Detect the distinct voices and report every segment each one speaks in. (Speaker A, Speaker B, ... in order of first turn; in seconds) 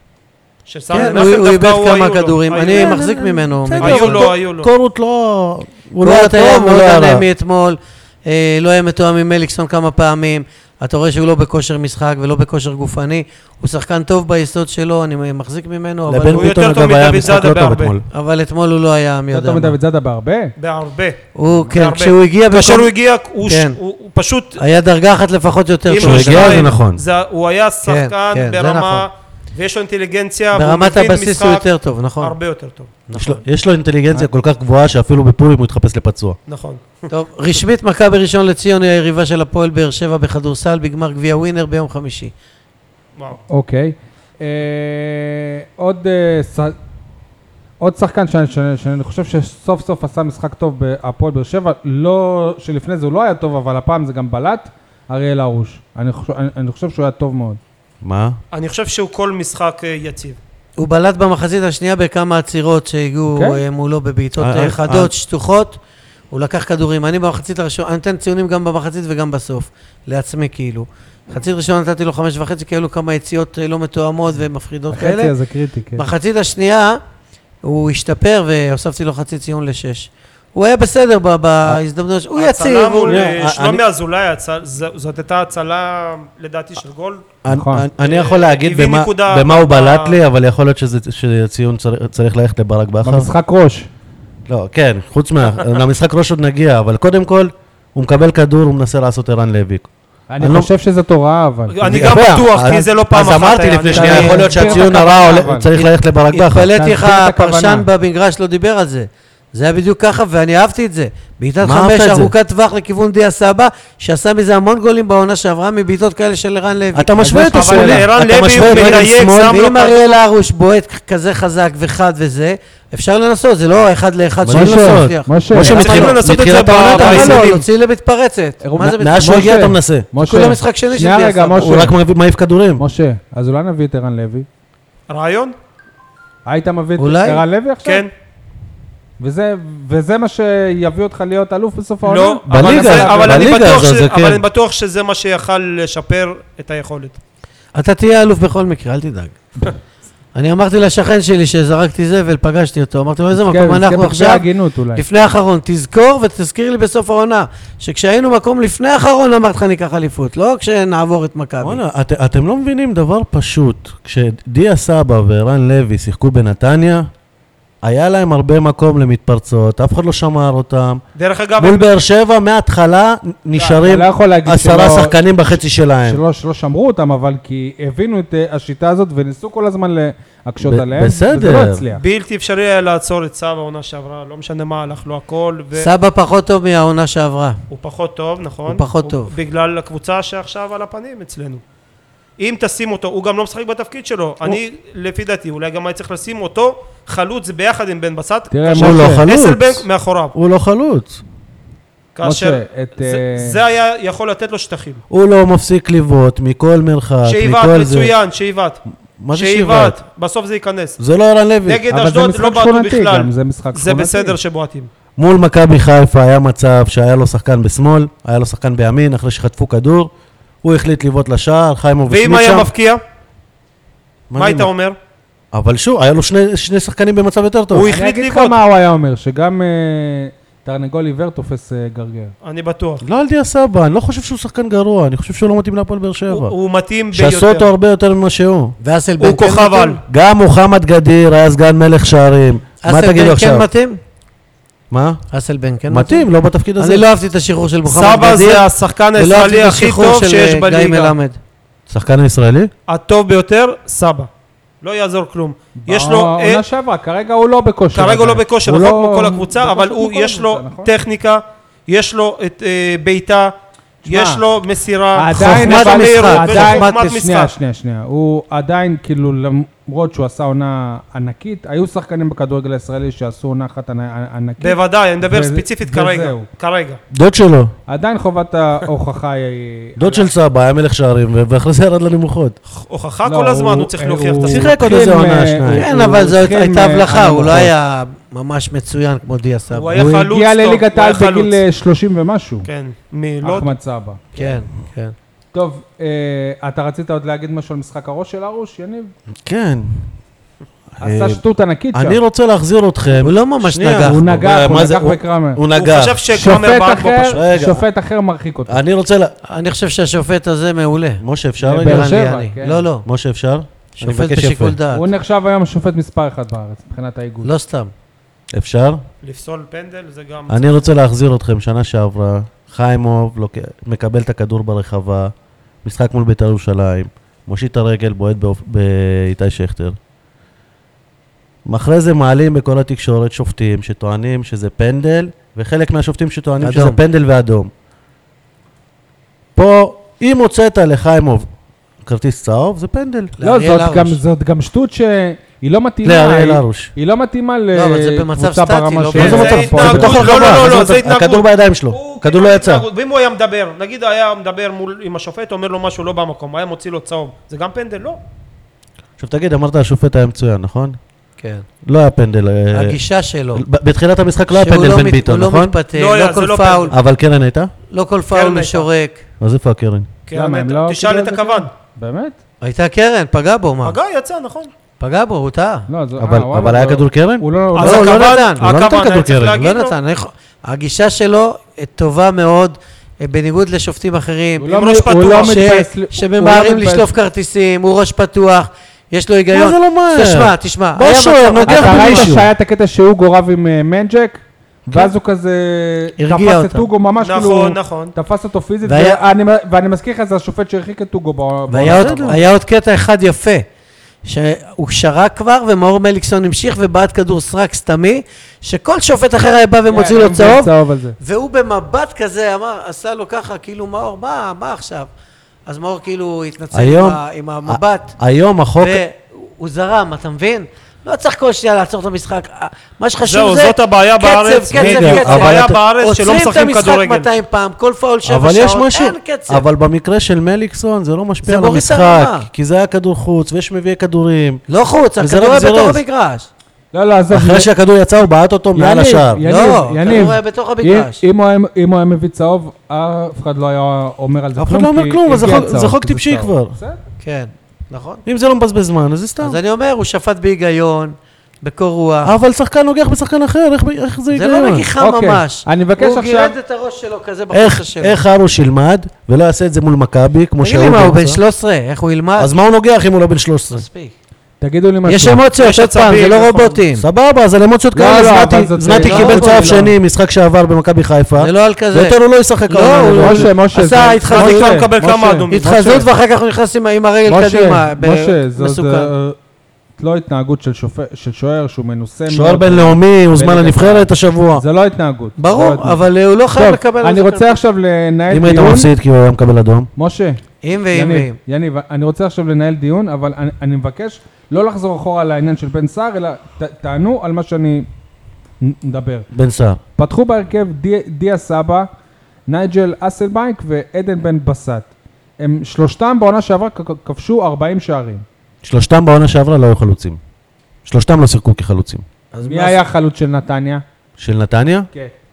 Speaker A: 0.7-3.0, 3.8-4.7, 16.3-17.9, 20.6-24.6, 25.9-31.6, 32.2-32.9, 36.5-37.1, 58.5-60.4, 82.3-87.2, 88.0-90.2, 101.7-104.4, 117.4-120.1, 125.6-127.6, 135.1-135.5, 137.8-138.1, 142.0-147.2, 171.2-171.9, 181.9-185.9, 187.7-191.6, 192.4-200.3, 202.1-205.0, 207.2-208.8, 209.3-211.0, 211.7-214.9, 222.1-223.0, 224.3-225.0, 227.7-228.6, 232.4-233.0, 236.3-237.7, 239.2-240.0, 247.8-251.1, 252.9-254.3, 254.8-256.6, 257.9-263.5, 264.1-267.5, 274.6-277.0, 282.7-284.7, 289.7-291.6, 292.6-293.7, 305.7-307.4, 319.2-320.8, 349.1-358.2, 365.9-366.9, 368.3-368.9, 370.3-371.7, 373.8-374.7, 377.8-379.9, 384.7-385.6, 397.2-398.1, 423.2-427.3, 465.6-466.8, 474.2-476.0
Speaker B: 0.9-4.2, 6.0-16.6, 18.1-19.7, 21.3-22.9, 23.4-23.8, 24.6-26.7, 27.8-29.1, 30.5-32.3, 33.1-33.4, 37.1-42.3, 60.8-65.8, 66.3-75.3, 76.0-77.0, 77.6-83.3, 104.0-104.4, 105.8-117.4, 118.6-129.6, 130.2-131.9, 137.0-137.4, 147.7-149.7, 150.3-161.8, 185.7-187.6, 188.7-189.3, 238.8-240.0, 242.8-244.0, 245.3-246.2, 246.8-251.4, 265.4-267.1, 285.7-290.0, 294.3-295.1, 303.2-304.2, 309.5-311.2, 311.8-313.0, 314.0-315.1, 317.4-317.9, 336.6-337.0, 343.4-344.2, 347.7-350.6, 361.4-361.6, 362.7-363.6, 364.5-366.9, 367.9-369.2, 372.6-374.0, 375.0-375.9, 377.8-378.6, 379.5-392.4, 396.2-396.9, 398.8-399.2, 401.7-403.6, 404.2-415.1, 415.6-418.1, 418.8-429.6, 431.4-432.4, 434.7-436.5, 439.4-441.2, 447.2-448.2, 449.4-452.3, 454.3-458.2, 460.6-462.5, 463.7-464.1, 465.1-467.0, 468.9-469.8, 471.4-472.1, 472.7-474.8, 475.5-479.1, 485.4-487.6, 490.6-491.4, 512.3-512.8
Speaker C: 2.7-7.2, 16.1-18.0, 26.0-27.0, 33.1-36.4, 58.0-58.4, 64.4-65.1, 83.1-83.8, 87.4-93.3, 94.5-99.9, 100.4-100.7, 101.8-106.7, 111.6-112.3, 116.9-119.6, 124.4-127.5, 129.0-130.1, 131.6-132.8, 142.5-144.4, 161.6-167.1, 167.8-171.0, 171.6-176.2, 180.6-181.8, 198.8-199.8, 200.3-201.2, 205.1-208.1, 209.2-210.0, 211.0-211.8, 215.2-220.1, 220.6-222.7, 224.3-224.7, 225.5-227.9, 233.0-236.5, 237.1-238.8, 240.1-243.7, 244.9-245.2, 245.9-247.0, 251.9-252.7, 277.1-277.7, 280.0-282.6, 284.5-285.9, 299.4-300.0, 301.0-301.4, 301.9-306.2, 307.3-307.8, 308.7-309.3, 311.2-312.2, 313.0-314.8, 318.5-319.0, 320.5-325.3, 325.8-329.9, 331.6-337.7, 339.5-341.5, 342.0-343.3, 346.0-346.9, 349.1-352.9, 359.2-361.0, 361.8-363.0, 363.5-365.7, 366.9-367.7, 369.4-370.1, 376.2-379.6, 389.5-392.5, 401.8-402.4, 416.7-419.0, 424.7-425.8, 428.2-434.6, 435.2-436.0, 437.3-439.4, 444.6-446.7, 448.2-449.6, 452.2-454.9, 457.5-461.4, 462.4-463.8, 467.0-473.5, 475.6-476.0, 482.3-484.6, 488.3-489.9, 499.3-499.8, 508.6-510.2, 510.8-512.0, 514.2-514.9
Speaker D: 19.3-20.5, 43.5-46.8, 47.8-57.6, 63.3-63.6, 74.9-76.0, 87.5-87.8, 93.0-93.9, 100.3-101.8, 103.9-105.7, 106.7-107.9, 117.2-118.0, 124.5-125.8, 128.6-131.9, 132.8-134.4, 136.5-138.0, 139.2-143.6, 153.3-155.0, 173.6-175.2, 176.0-182.0, 198.5-199.2, 202.2-203.6, 211.9-214.4, 227.8-232.3, 255.8-260.9, 264.0-264.4, 265.1-276.5, 277.9-280.3, 283.2-287.7, 289.9-292.7, 293.4-294.2, 295.5-299.1, 301.0-302.2, 304.0-305.6, 306.3-308.8, 311.6-312.8, 314.9-317.5, 343.4-350.4, 370.3-372.4, 375.9-378.1, 384.6-387.1, 391.6-402.4, 409.9-411.2, 436.9-437.7, 438.7-447.0, 455.0-456.6, 464.6-465.4, 467.9-469.9, 473.1-476.0, 477.2-479.4, 480.0-486.0, 486.5-488.9, 489.9-490.4, 490.9-497.9, 498.6-499.3, 500.0-501.9, 502.5-508.2, 512.4-513.8